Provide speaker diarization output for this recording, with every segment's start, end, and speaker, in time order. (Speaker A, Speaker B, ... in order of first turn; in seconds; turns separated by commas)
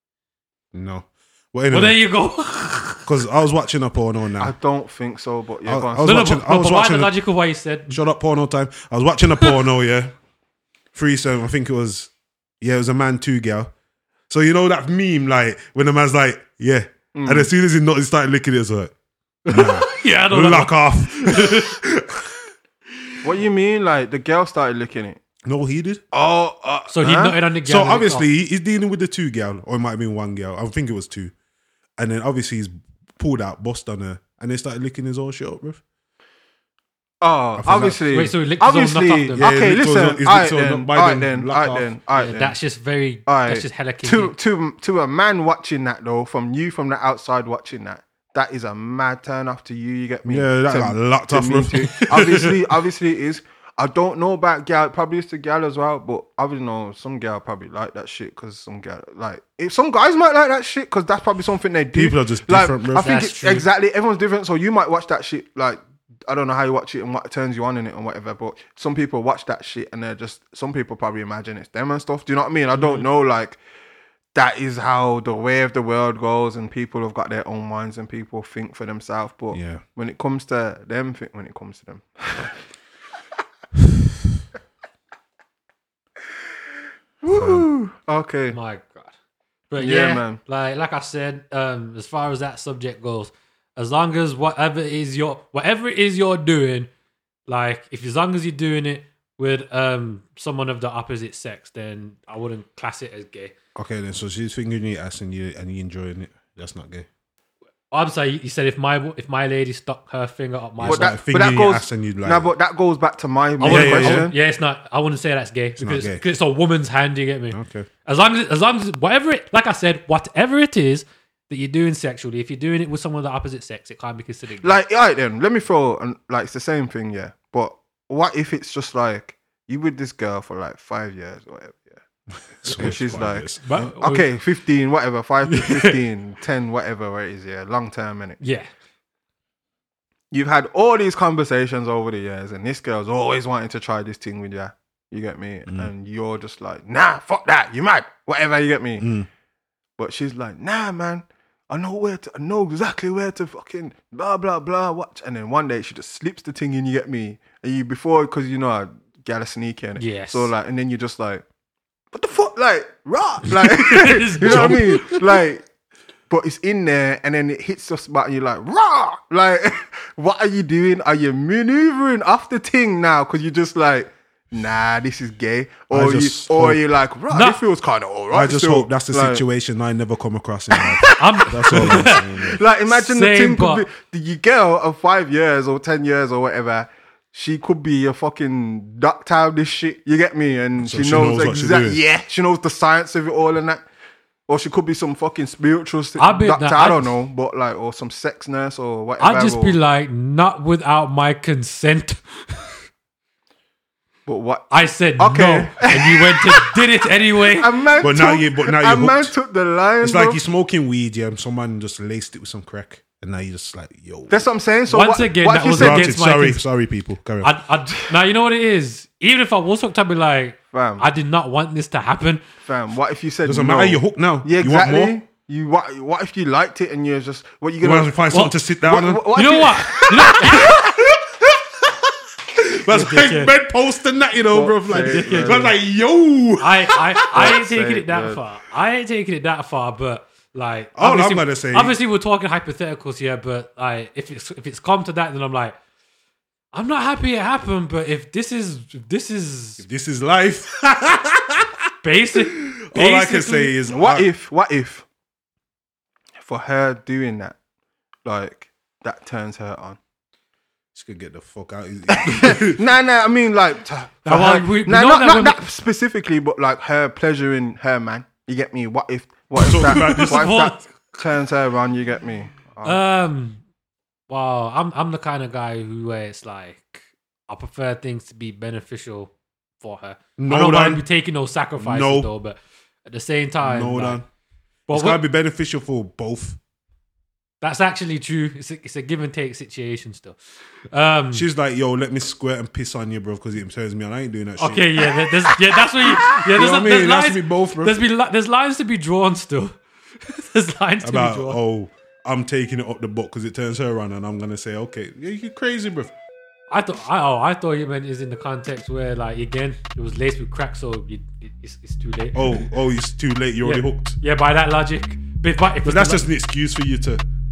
Speaker A: 0.7-2.0, Speaker B: 1.7-3.0, Speaker A: 3.0-4.5, Speaker C: 4.4-6.3, Speaker A: 5.6-7.1, Speaker B: 6.0-8.0, Speaker A: 7.9-10.1, Speaker A: 10.9-13.7, Speaker A: 14.3-18.9, Speaker C: 17.1-17.5, Speaker B: 19.5-21.7, Speaker A: 19.5-22.5, Speaker C: 23.2-25.2, Speaker A: 25.4-26.0, Speaker C: 26.1-27.4, Speaker B: 26.9-28.3, Speaker A: 27.6-31.3, Speaker A: 32.0-35.8, Speaker C: 37.2-42.5, Speaker A: 37.6-38.0, Speaker B: 38.1-39.5, Speaker A: 39.4-41.9, Speaker B: 42.2-44.3, Speaker C: 43.2-73.6, Speaker A: 50.2-52.6, Speaker A: 61.9-63.1, Speaker B: 62.9-63.7, Speaker B: 72.8-73.0, Speaker C: 74.3-82.6, Speaker A: 79.5-79.8, Speaker C: 87.2-88.6, Speaker A: 87.3-87.7, Speaker B: 88.5-89.1, Speaker B: 89.7-96.9, Speaker C: 89.8-90.4, Speaker B: 97.5-103.5, Speaker A: 103.7-107.1, Speaker B: 107.9-111.2, Speaker A: 110.8-112.5, Speaker C: 110.8-114.3, Speaker B: 113.6-124.8, Speaker A: 113.6-114.3, Speaker A: 115.8-116.2, Speaker A: 117.5-117.9, Speaker C: 124.6-132.0, Speaker A: 132.6-133.6, Speaker C: 132.6-138.4, Speaker B: 133.6-134.2, Speaker B: 135.5-135.9, Speaker B: 138.4-138.7, Speaker C: 140.3-149.1, Speaker A: 149.0-149.3, Speaker C: 150.0-161.4, Speaker B: 160.0-160.5, Speaker C: 162.1-165.6, Speaker B: 163.6-165.2, Speaker A: 164.4-165.0, Speaker C: 166.3-179.4, Speaker A: 175.9-176.8, Speaker B: 177.3-177.6, Speaker A: 178.3-182.6, Speaker C: 180.7-181.2, Speaker B: 181.1-182.2, Speaker C: 181.7-193.8, Speaker B: 182.9-183.8, Speaker A: 190.8-192.0, Speaker C: 194.5-199.8, Speaker B: 196.2-197.1, Speaker B: 199.2-202.7, Speaker C: 204.2-206.8, Speaker B: 204.7-207.7, Speaker C: 207.4-210.4, Speaker A: 208.0-209.3, Speaker A: 210.0-214.4, Speaker C: 214.3-216.1, Speaker B: 214.9-216.6, Speaker A: 215.7-217.5, Speaker B: 217.4-222.4, Speaker C: 220.7-221.1, Speaker C: 222.6-228.2, Speaker A: 223.4-225.1, Speaker A: 227.8-229.4, Speaker C: 228.8-230.7, Speaker B: 229.3-230.8, Speaker A: 229.9-237.6, Speaker B: 232.9-233.5, Speaker C: 234.5-235.7, Speaker B: 234.9-235.7, Speaker B: 236.6-245.8, Speaker C: 237.3-238.4, Speaker A: 240.9-242.0, Speaker B: 246.7-249.8, Speaker A: 249.8-251.8, Speaker B: 252.0-253.7, Speaker A: 252.3-254.3, Speaker C: 253.9-255.1, Speaker C: 256.4-257.6, Speaker C: 258.2-260.0, Speaker A: 260.9-262.8, Speaker C: 262.1-273.0, Speaker B: 264.2-265.6, Speaker A: 269.6-270.5, Speaker B: 269.8-270.9, Speaker B: 272.8-273.6, Speaker B: 274.3-284.2, Speaker A: 280.4-281.0, Speaker A: 281.8-282.3, Speaker A: 283.6-284.2, Speaker B: 284.9-285.2, Speaker A: 284.9-286.6, Speaker B: 287.6-290.4, Speaker B: 290.9-291.4, Speaker A: 291.3-298.0, Speaker B: 294.6-301.6, Speaker A: 301.0-306.1, Speaker B: 306.7-312.7, Speaker A: 312.3-314.2, Speaker B: 313.6-316.2, Speaker A: 315.8-317.2